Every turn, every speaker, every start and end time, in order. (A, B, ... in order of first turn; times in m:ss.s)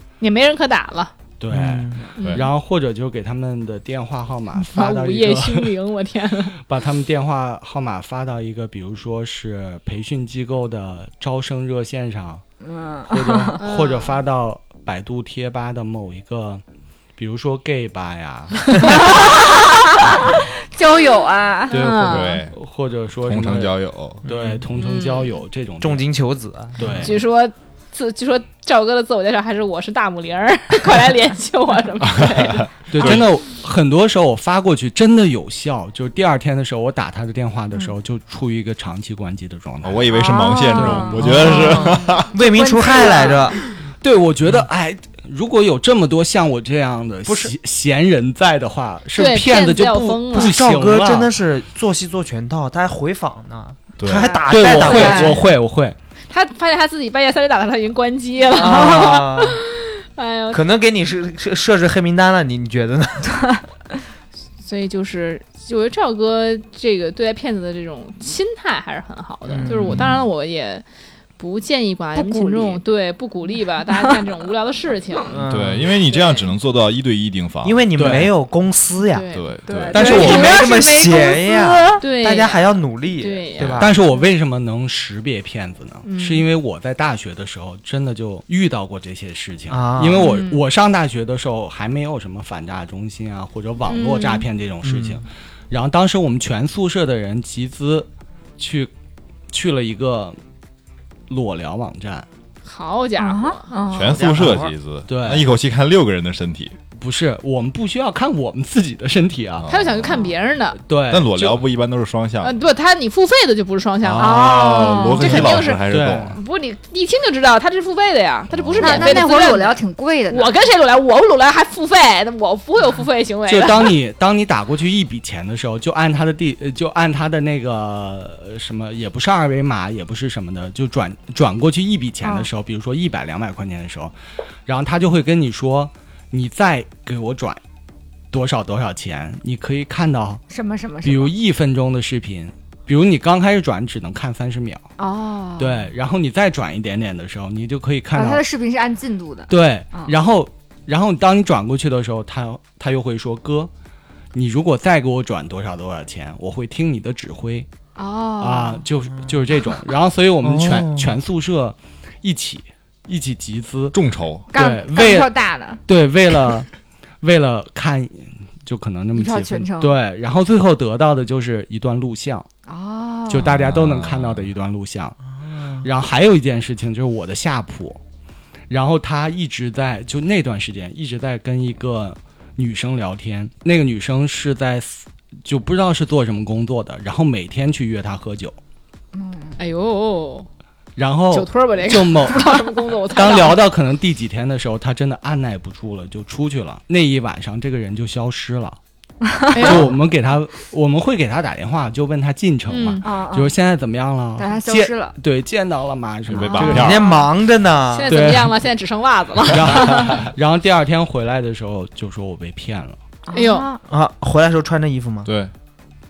0:00.2-0:01.1 A
0:01.4-0:05.7 B
0:01.5-0:02.1 C
0:02.2-0:02.5 A
0:02.2-0:02.5 D
0:04.6-0:06.6 A
0:06.6-0:12.4 B
0:12.6-0:13.7 E
0:13.1-0:16.6 B
0:13.6-0:14.0 A
0:17.2-0:19.2 B
0:18.9-0:21.9 E
0:21.7-0:26.0 B
0:21.7-0:22.4 A
0:22.0-0:22.5 D
0:23.3-0:24.2 D
0:24.2-0:24.6 C
0:25.0-0:25.3 E
0:25.8-0:27.1 C
0:26.8-0:27.2 B
0:27.0-0:32.7 A
0:32.1-0:33.3 D
0:32.9-0:40.1 B
0:39.8-0:42.3 D
0:40.1-0:43.6 E
0:40.7-0:41.6 B
0:41.1-0:43.6 C
0:41.8-0:42.2 A
0:44.0-0:51.3 B
0:47.2-0:47.5 C
0:49.2-0:50.5 A
0:50.3-0:55.5 C
0:54.0-0:54.4 D
0:54.2-0:55.4 E
0:54.4-0:56.0 B
0:56.3-1:00.6 A
0:58.5-0:59.6 C
0:58.6-0:59.1 E
1:00.5-1:03.6 C
1:04.6-1:10.8 A
1:09.5-1:10.1 C
1:09.5-1:10.2 D
1:11.4-1:15.3 A
1:12.1-1:12.8 E
1:15.3-1:15.9 C
1:15.5-1:18.3 D
1:17.6-1:19.3 C
1:18.0-1:18.3 B
1:19.1-1:19.5 A
1:19.3-1:20.5 D
1:19.7-1:22.0 E
1:19.9-1:20.8 B
1:19.9-1:23.9 C
1:22.0-1:23.9 A
1:23.8-1:38.1 B
1:26.0-1:26.5 A
1:29.7-1:30.2 C
1:30.2-1:30.6 A
1:33.9-1:34.4 A
1:34.8-1:35.2 C
1:38.6-1:38.9 B
1:39.5-1:40.4 B
1:41.3-1:42.2 B
1:42.6-1:43.7 A
1:43.2-1:44.2 E
1:43.9-1:46.8 D
1:43.9-1:44.7 C
1:44.4-1:45.5 B
1:47.0-1:49.7 B
1:49.6-1:50.2 D
1:49.7-1:50.8 A
1:50.8-1:51.4 B
1:51.1-1:52.5 D
1:52.4-2:04.0 A
1:54.0-1:56.4 D
1:54.2-1:55.4 E
1:55.1-1:56.4 B
1:58.5-1:59.3 D
1:58.8-2:00.5 E
2:03.5-2:14.1 B
2:12.2-2:12.5 E
2:14.6-2:17.6 B
2:18.3-2:20.4 B
2:20.5-2:21.3 E
2:21.0-2:24.8 B
2:25.0-2:25.8 E
2:25.6-2:28.4 B
2:28.1-2:30.1 E
2:29.5-2:33.7 B
2:34.3-2:37.7 B
2:38.0-2:38.9 E
2:38.4-2:44.0 B
2:40.4-2:41.1 C
2:43.9-2:44.5 D
2:44.5-2:45.8 E
2:44.5-2:45.3 B
2:45.8-2:46.7 B
2:47.2-2:52.5 B
2:49.1-2:50.0 E
2:52.7-2:53.5 E
2:53.3-2:55.2 B
2:53.4-2:54.5 D
2:55.6-2:55.8 C
2:55.8-2:58.0 B
2:58.7-3:08.6 B
3:09.1-3:09.5 E
3:09.6-3:10.5 A
3:11.0-3:18.8 B
3:11.3-3:13.6 A
3:19.2-3:19.8 E
3:19.5-3:19.9 A
3:19.6-3:27.0 B
3:22.7-3:23.0 A
3:23.0-3:23.5 E
3:24.4-3:25.1 E
3:26.3-3:27.2 D
3:26.5-3:27.2 E
3:26.6-3:28.1 C
3:27.9-3:30.3 A
3:28.1-3:28.6 B
3:29.5-3:33.0 B
3:29.7-3:30.3 D
3:33.2-3:33.8 E
3:33.3-3:33.7 A
3:33.9-3:35.3 C
3:35.2-3:35.5 D